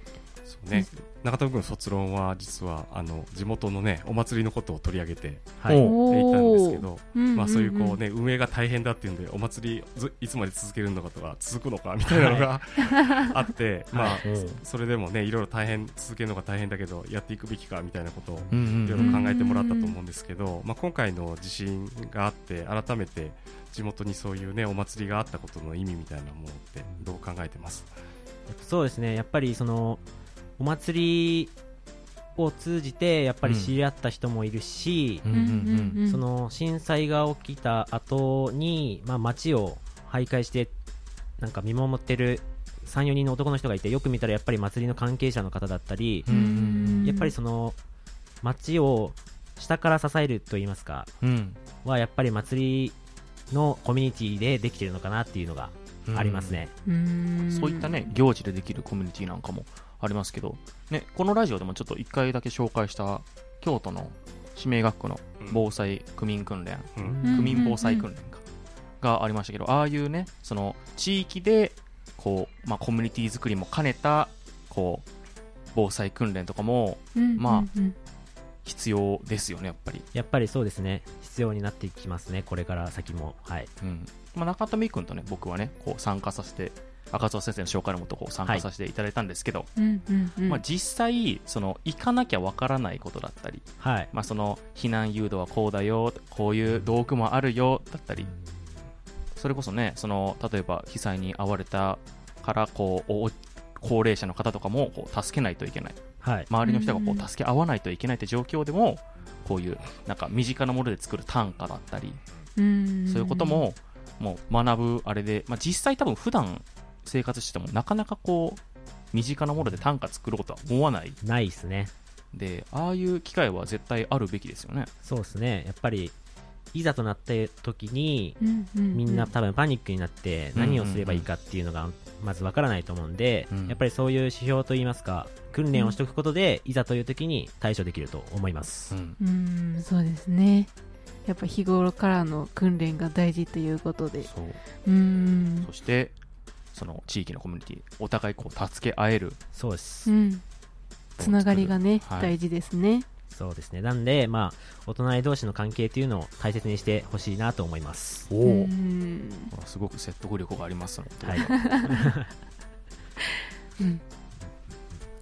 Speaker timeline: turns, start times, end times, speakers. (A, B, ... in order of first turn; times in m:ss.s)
0:00.4-0:27.9 A
0:05.6-0:05.9 B
0:05.7-0:06.0 C
0:05.8-0:08.0 D
0:12.1-0:12.5 B
0:12.2-0:12.4 C
0:13.9-0:14.4 B
0:14.0-0:14.6 C
0:18.5-0:19.2 C
0:19.0-0:20.0 D
0:28.5-0:30.0 B
0:30.6-0:31.5 B
0:32.4-0:35.3 B
0:33.4-0:33.7 C
0:35.2-0:36.0 C
0:35.3-0:36.2 D
0:36.0-0:40.7 B
0:41.4-0:46.3 B
0:46.3-0:47.1 C
0:46.3-0:47.3 D
0:47.0-0:47.8 B
0:48.4-0:51.1 B
0:51.2-0:51.6 C
0:51.8-0:53.0 B
0:53.5-0:56.7 B
0:56.1-0:56.6 C
0:56.9-0:58.1 D
0:57.5-1:08.4 C
1:07.0-1:07.2 A
1:07.2-1:08.0 D
1:09.0-1:15.0 C
1:15.7-1:17.7 C
1:17.2-1:18.0 D
1:18.6-1:20.1 C
1:20.1-1:23.7 B
1:23.8-1:29.7 C
1:29.8-1:30.6 D
1:30.5-1:38.3 C
1:33.8-1:34.1 B
1:39.4-1:52.2 C
1:46.2-1:46.5 B
1:46.6-1:47.3 D
1:52.6-1:53.6 D
1:53.1-1:58.6 C
1:59.1-2:01.2 C
2:01.2-2:01.9 B
2:02.3-2:04.9 C
2:05.0-2:06.2 B
2:06.7-2:08.4 B
2:08.4-2:09.3 D
2:08.9-2:19.0 B
2:10.6-2:11.3 C
2:13.5-2:13.8 C
2:18.9-2:19.2 C
2:19.2-2:20.7 D
2:21.3-2:24.3 D
2:24.2-2:24.6 C
2:24.8-2:25.7 D
2:25.6-2:26.1 C
2:26.7-2:29.4 C
2:29.5-2:30.1 B
2:30.1-2:30.4 D
2:31.2-2:33.0 D
2:31.2-2:32.3 C
2:33.3-2:38.3 B
2:38.3-2:38.7 C
2:38.4-2:39.5 D
2:39.5-2:42.0 C
2:41.2-2:42.3 B
2:41.5-2:41.9 D